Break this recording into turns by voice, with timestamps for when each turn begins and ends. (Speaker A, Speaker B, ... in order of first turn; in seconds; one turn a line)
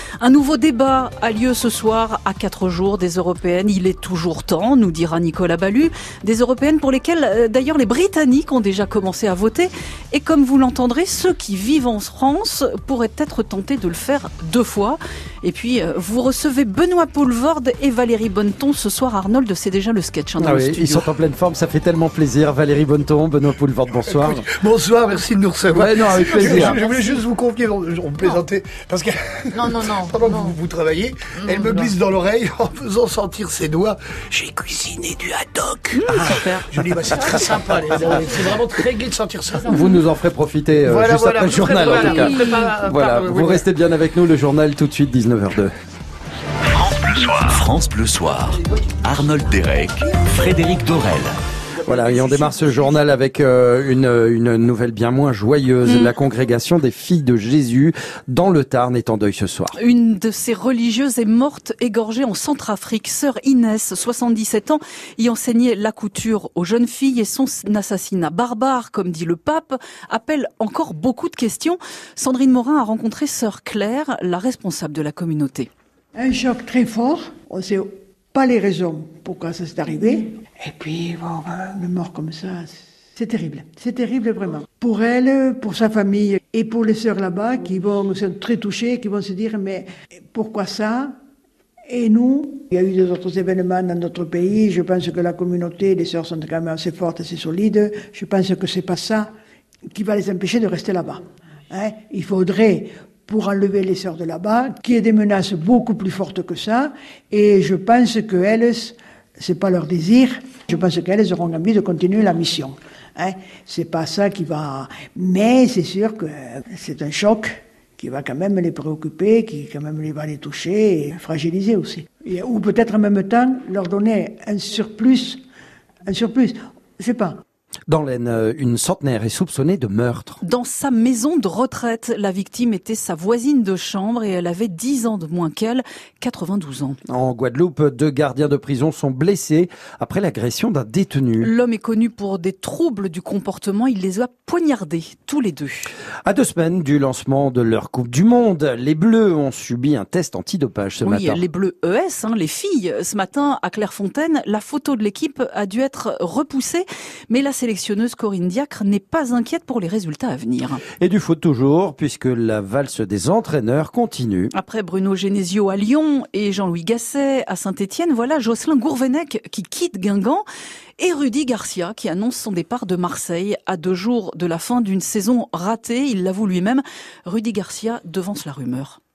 Speaker A: 0.2-21.1
Speaker B: 20.4-24.5
Speaker C: 24.1-39.7
Speaker B: 25.7-26.8
Speaker A: 26.2-27.0
Speaker A: 36.1-36.6
Speaker B: 37.7-38.1
Speaker B: 39.7-45.7
Speaker C: 40.8-43.6
Speaker D: 46.8-51.3
Speaker B: 51.9-59.8
Speaker A: 59.8-75.7
Speaker E: 76.2-91.1
Speaker E: 91.9-99.3
Speaker E: 99.9-125.4
Speaker E: 126.1-127.4
Speaker B: 127.9-130.4
Speaker A: 130.4-137.0
Speaker B: 137.1-141.5
Speaker A: 141.4-145.9
Speaker B: 146.2-151.4
Speaker A: 151.0-160.8
Speaker B: 161.0-164.5
Speaker A: 164.5-170.4
Speaker A: 171.0-179.0